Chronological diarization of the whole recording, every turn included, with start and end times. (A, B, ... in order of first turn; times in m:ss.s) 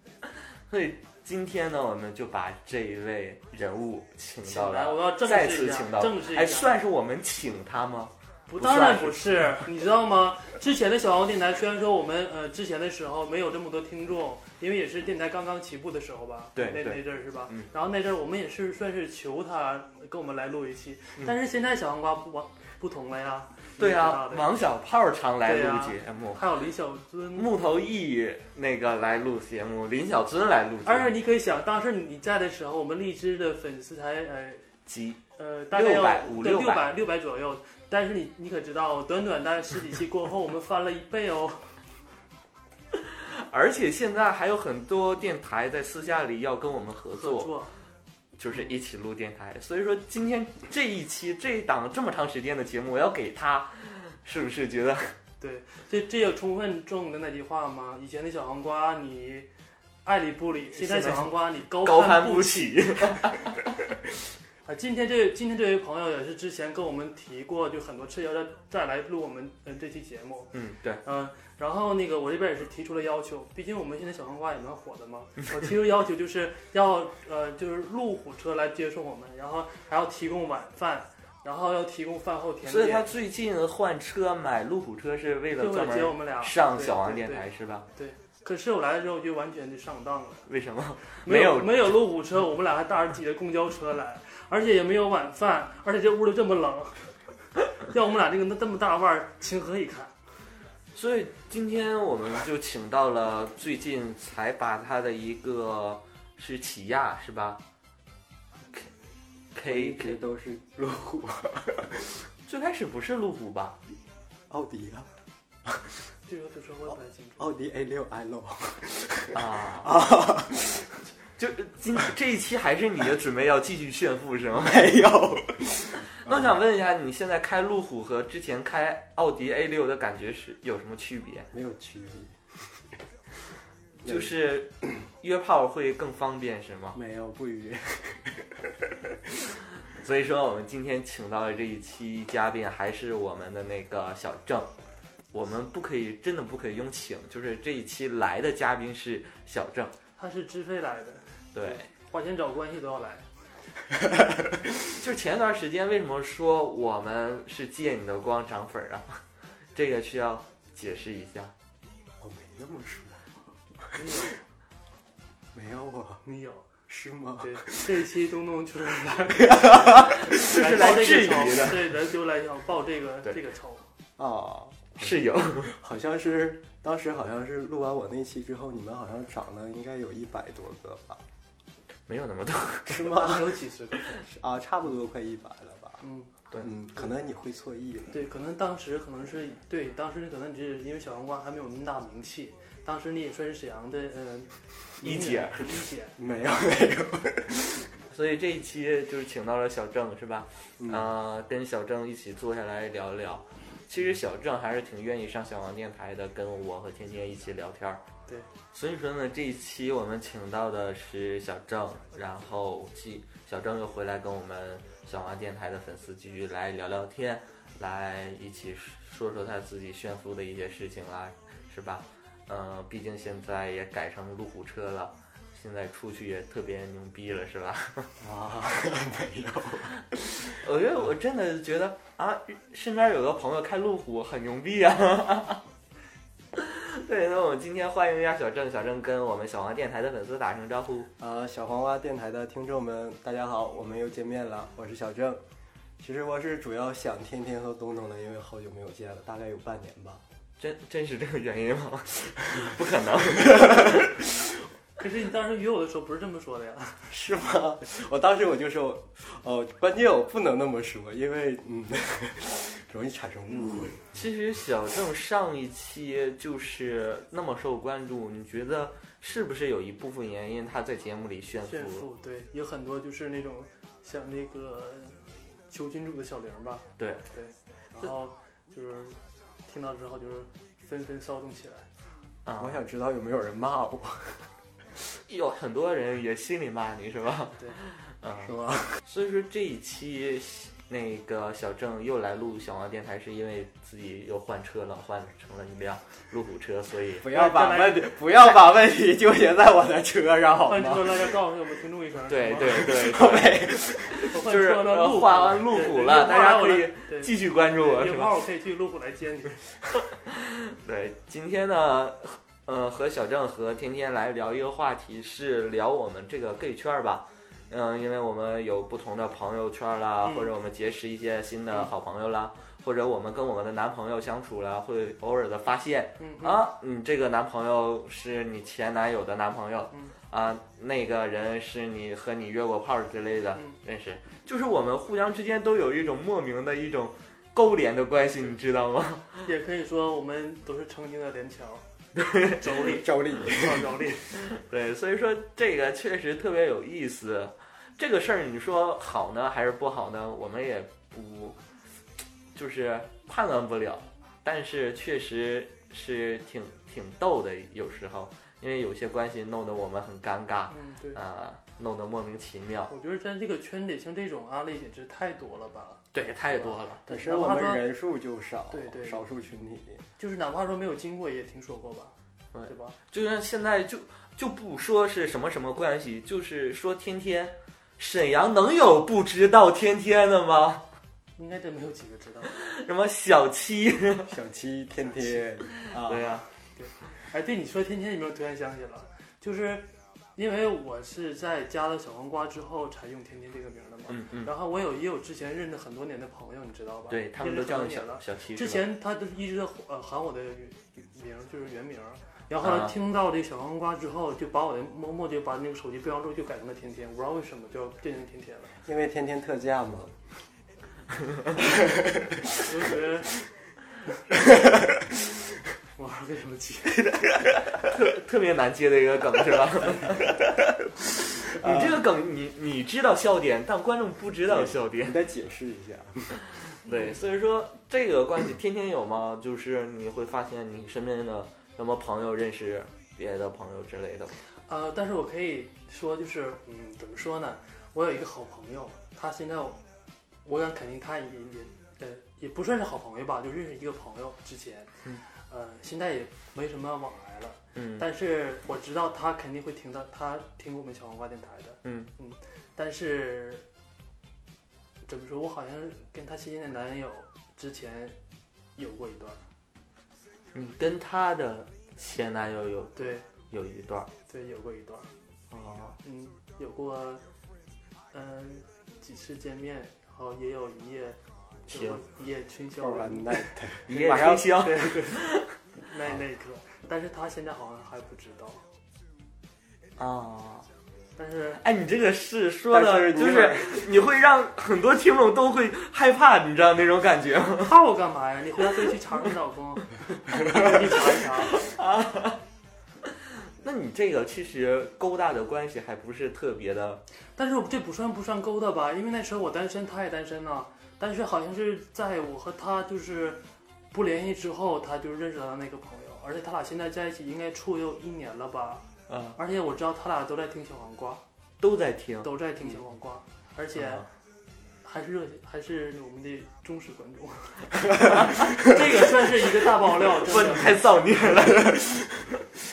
0:00.7-0:09.6 A
0:04.4-0:06.7 B
0:08.5-0:24.6 B
0:16.6-0:17.7 A
0:23.8-0:26.4 A
0:25.4-0:27.5 B
0:27.4-0:31.1 A
0:30.8-0:34.6 B
0:34.8-0:35.2 A
0:35.4-0:41.7 B
0:35.7-0:36.8 A
0:43.2-0:47.5 A
0:47.2-0:47.7 B
0:48.4-0:55.1 A
0:55.4-0:59.5 B
1:00.0-1:03.2 B
1:00.7-1:03.7 A
1:04.6-1:23.1 B
1:10.5-1:11.0 A
1:22.6-1:27.9 A
1:25.6-1:27.4 B
1:27.9-1:30.5 B
1:30.5-1:31.9 A
1:31.2-1:37.1 B
1:37.8-1:40.1 B
1:40.9-1:47.6 A
1:49.5-1:50.2 A
1:49.6-1:52.2 C
1:52.5-1:53.8 A
1:54.5-1:55.1 C
1:55.6-1:55.9 C
1:56.3-1:57.5 B
1:57.4-2:01.0 C
1:59.3-1:59.9 A
2:01.4-2:04.8 A
2:04.5-2:06.5 C
2:06.2-2:11.5 A
2:11.5-2:12.4 C
2:14.0-2:14.3 C
2:14.0-2:17.0 A
2:16.9-2:19.3 C
2:19.9-2:24.7 A
2:25.3-2:29.9 A
2:30.2-2:33.3 B
2:31.5-2:31.9 A
2:34.9-2:39.2 A
2:39.7-2:41.5 A
2:42.2-2:43.2 C
2:43.9-2:44.4 B
2:45.5-2:46.2 C
2:46.2-2:46.7 B
2:46.9-2:48.0 C
2:47.4-2:53.8 B
2:49.5-2:50.3 C
2:50.2-2:52.0 A
2:54.2-3:01.2 C
2:55.0-2:55.7 A
3:02.1-3:03.2 A
3:02.9-3:03.5 C
3:03.0-3:04.2 B
3:04.2-3:06.0 C
3:06.0-3:06.3 B
3:06.6-3:08.1 C
3:08.1-3:16.1 B
3:15.0-3:15.8 A
3:16.2-3:17.9 C
3:18.1-3:28.0 A
3:20.8-3:21.1 C
3:28.7-3:48.1 A
3:48.2-3:50.5 C
3:50.4-3:55.6 A
3:56.5-4:01.1 A
4:01.2-4:05.4 C
4:06.0-4:10.2 C
4:10.6-4:14.2 A
4:13.6-4:13.8 C
4:15.0-4:17.1 B
4:17.1-4:24.0 C
4:24.1-4:32.0 A
4:31.6-4:41.9 B
4:37.0-4:37.2 A
4:42.4-4:42.8 A
4:42.6-4:44.5 C
4:45.2-4:48.5 A
4:48.4-4:49.0 C
4:49.0-4:57.2 A
4:57.2-5:01.2 C
4:57.3-4:58.5 B
5:00.6-5:02.9 B
5:02.3-5:08.4 A
5:02.7-5:04.3 C
5:04.3-5:09.6 B
5:10.1-5:39.4 A
5:20.2-5:20.5 B
5:26.2-5:26.6 B
5:39.4-5:41.8 B
5:42.2-5:42.6 A
5:42.5-5:44.3 B
5:42.8-5:44.0 C
5:44.3-5:51.6 A
5:52.5-6:02.9 A
6:00.7-6:01.2 B
6:02.9-6:07.8 B
6:06.1-6:07.0 A
6:07.1-6:10.0 C
6:08.7-6:09.2 B
6:10.2-6:12.1 B
6:12.5-6:20.8 A
6:12.7-6:13.0 B
6:21.4-6:22.5 B
6:22.5-6:24.3 A
6:24.3-6:26.4 C
6:25.0-6:25.4 B
6:25.9-6:26.5 A
6:26.8-6:48.8 B
6:34.1-6:34.5 A
6:37.1-6:38.8 A
6:42.6-6:42.9 A
6:48.8-6:50.2 C
6:51.6-6:52.5 C
6:52.6-6:53.3 B
6:54.5-6:55.0 C
6:56.0-6:57.1 B
6:57.8-7:00.6 A
7:01.4-7:05.2 A
7:04.5-7:06.4 C
7:06.6-7:14.3 A
7:06.9-7:07.1 B
7:14.7-7:19.8 B
7:20.4-7:33.6 B
7:27.7-7:28.0 A
7:31.8-7:32.1 A
7:35.0-7:38.2 B
7:38.8-7:39.4 B
7:40.5-7:44.1 A
7:43.0-7:43.2 B
7:44.3-7:45.1 B
7:45.5-7:46.0 A
7:46.0-7:47.2 B
7:48.1-7:51.2 B
7:51.7-7:52.0 A
7:51.7-7:53.5 B
7:52.8-7:54.5 C
7:53.9-7:55.5 A
7:54.1-7:55.3 B
7:55.8-7:58.6 B
8:00.0-8:00.7 A
8:01.2-8:01.6 B
8:01.6-8:07.7 A
8:02.7-8:03.9 C
8:07.6-8:11.6 B
8:10.5-8:12.4 A
8:13.6-8:17.0 A
8:17.4-8:23.4 B
8:23.9-8:31.2 B
8:29.1-8:29.4 A
8:31.6-8:32.3 A
8:32.2-8:34.0 B
8:33.8-8:34.0 A
8:34.8-8:40.7 B
8:38.0-8:38.4 A
8:40.0-8:42.2 A